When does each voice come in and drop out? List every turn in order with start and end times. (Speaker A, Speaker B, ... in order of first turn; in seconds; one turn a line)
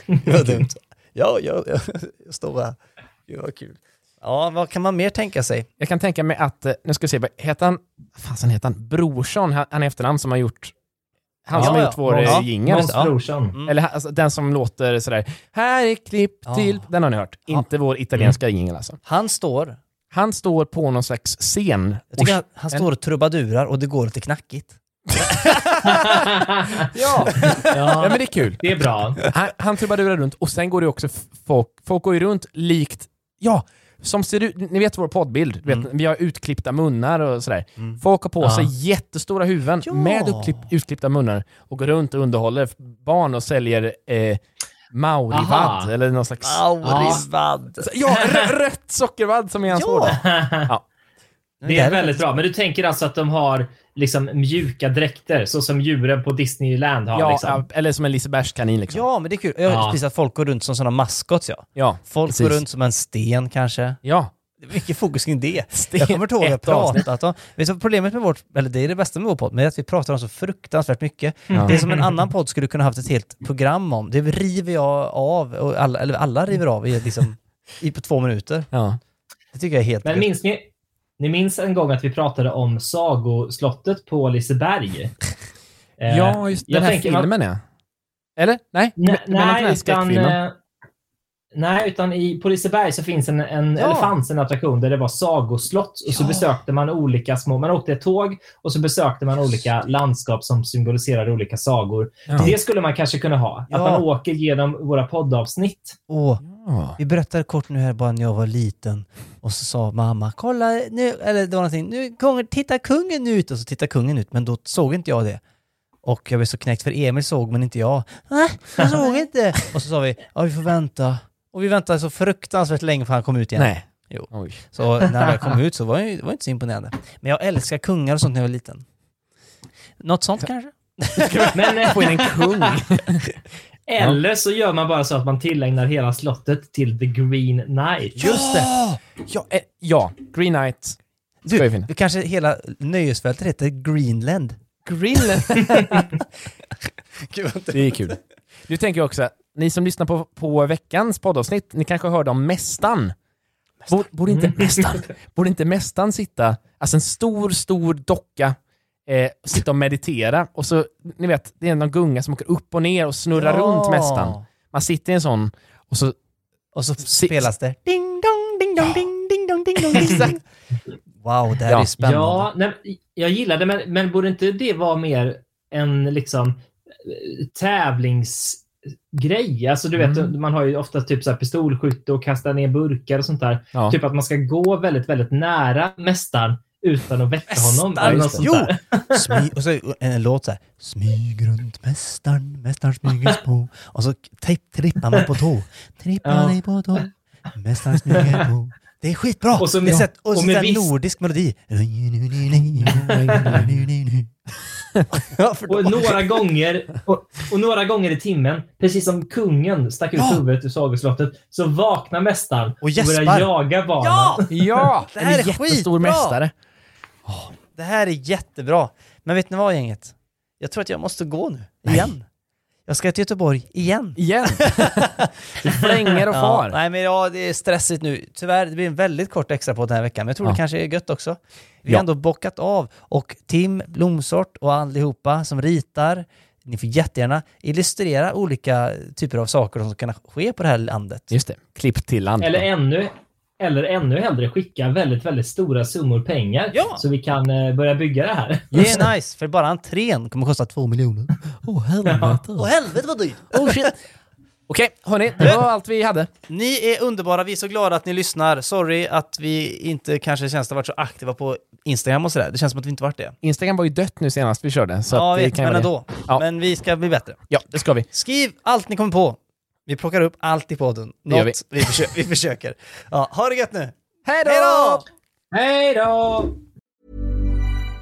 Speaker A: 0.2-5.7
Speaker B: 5.8-10.7
Speaker B: 11.5-12.9
Speaker C: 11.5-13.6
Speaker A: 11.5-13.8
Speaker B: 13.7-19.0
Speaker A: 16.5-16.9
Speaker A: 19.1-19.8
Speaker B: 20.1-22.9
Speaker A: 22.1-24.8
Speaker B: 25.3-25.7
Speaker C: 26.1-26.7
Speaker B: 26.9-28.6
Speaker C: 27.7-29.2
Speaker B: 29.2-44.4
Speaker C: 38.4-38.7
Speaker A: 39.8-40.7
Speaker B: 44.9-47.2
Speaker C: 45.3-45.9
Speaker A: 46.4-47.9
Speaker B: 47.8-50.8
Speaker C: 48.1-48.5
Speaker A: 49.7-50.2
Speaker C: 50.1-50.7
Speaker A: 51.6-52.3
Speaker C: 51.7-57.6
Speaker B: 57.1-59.1
Speaker A: 58.9-64.0
Speaker C: 59.7-60.0
Speaker B: 61.8-62.6
Speaker B: 64.0-64.3
Speaker A: 64.6-78.7
Speaker B: 65.7-67.0
Speaker C: 71.5-72.0
Speaker B: 78.7-79.0
Speaker A: 79.5-80.3
Speaker C: 80.0-80.7
Speaker C: 81.2-85.2
Speaker C: 86.0-87.3
Speaker B: 86.1-87.6
Speaker B: 88.4-90.4
Speaker C: 89.0-90.5
Speaker C: 91.5-106.0
Speaker A: 93.8-94.2
Speaker A: 103.7-104.0
Speaker A: 106.1-106.4
Speaker B: 106.5-107.0
Speaker A: 107.0-115.4
Speaker A: 116.0-128.8
Speaker B: 123.5-124.6
Speaker A: 130.0-131.4
Speaker B: 131.2-133.2
Speaker C: 131.5-132.7
Speaker C: 133.9-138.2
Speaker B: 138.2-141.0
Speaker A: 138.2-139.0
Speaker A: 141.4-144.6
Speaker B: 141.5-141.9
Speaker B: 144.8-146.1
Speaker A: 147.2-148.2
Speaker B: 147.7-148.1
Speaker B: 148.7-153.2
Speaker B: 153.9-166.2
Speaker C: 154.3-155.0
Speaker A: 163.4-164.4
Speaker A: 166.7-170.4
Speaker B: 167.1-167.5
Speaker B: 169.9-170.4
Speaker A: 171.2-172.5
Speaker C: 172.0-189.1
Speaker B: 180.0-180.3
Speaker A: 187.5-204.3
Speaker B: 188.0-188.4
Speaker C: 196.2-197.1
Speaker C: 199.6-200.9
Speaker C: 203.3-203.6
Speaker A: 205.1-206.4
Speaker C: 205.7-214.7
Speaker A: 212.8-214.5
Speaker B: 214.5-216.5
Speaker A: 215.1-216.4
Speaker A: 217.3-222.2
Speaker A: 222.9-225.3
Speaker B: 224.2-226.8
Speaker A: 226.3-241.3
Speaker B: 241.3-242.7
Speaker C: 242.4-249.0
Speaker A: 246.7-247.0
Speaker A: 248.7-251.4
Speaker B: 251.6-252.7
Speaker C: 252.0-252.4
Speaker A: 252.6-253.8
Speaker B: 253.5-253.9
Speaker B: 254.7-256.3
Speaker A: 256.5-263.4
Speaker B: 263.4-266.4
Speaker A: 265.1-267.4
Speaker B: 267.5-268.1
Speaker A: 268.1-275.1
Speaker B: 271.3-271.6
Speaker B: 274.3-275.0
Speaker C: 275.5-276.6